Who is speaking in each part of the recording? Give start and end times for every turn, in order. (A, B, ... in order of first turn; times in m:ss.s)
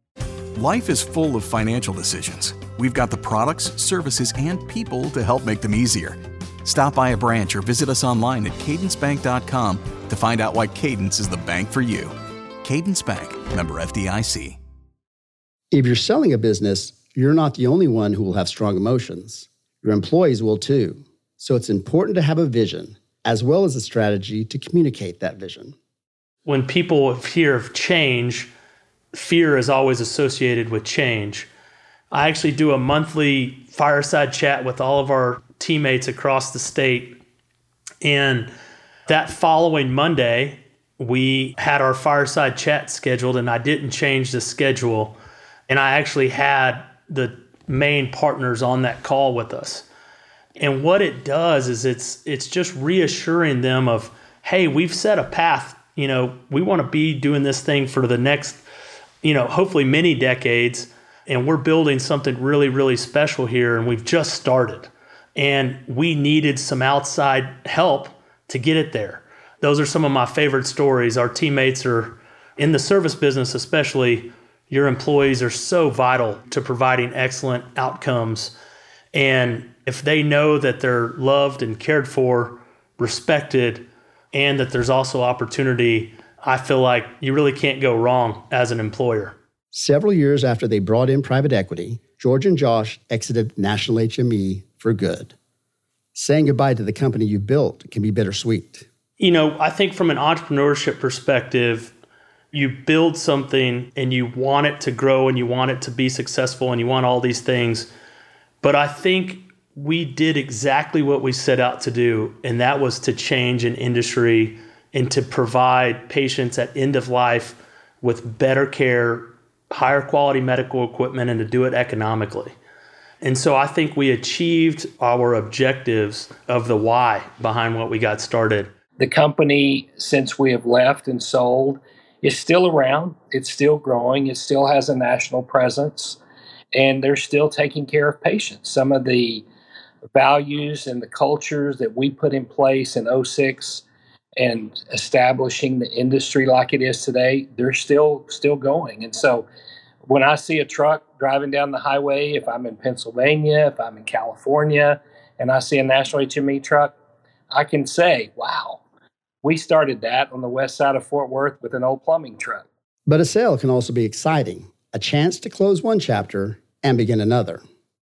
0:00.6-0:14.6 A
0:15.7-0:25.8 B
0:26.5-0:28.5 C
0:29.1-0:31.5 C
0:32.1-0:37.2 C
0:38.0-0:38.5 C
0:39.1-0:45.2 C
0:45.7-0:49.9 C
0:50.6-0:58.6 C
0:59.2-1:18.5 C
1:19.1-1:29.4 C
1:29.7-1:35.4 B
1:36.2-1:38.9 B
1:39.2-1:41.9 C
1:42.5-1:47.9 C
1:48.6-2:02.6 C
2:03.2-2:08.7 C
2:09.0-2:16.2 D
2:16.7-2:19.4 D
2:20.1-2:23.8 D
2:24.4-2:29.5 D
2:30.1-2:36.9 D
2:37.5-2:38.8 D
2:39.4-2:42.6 D
2:43.1-2:47.6 B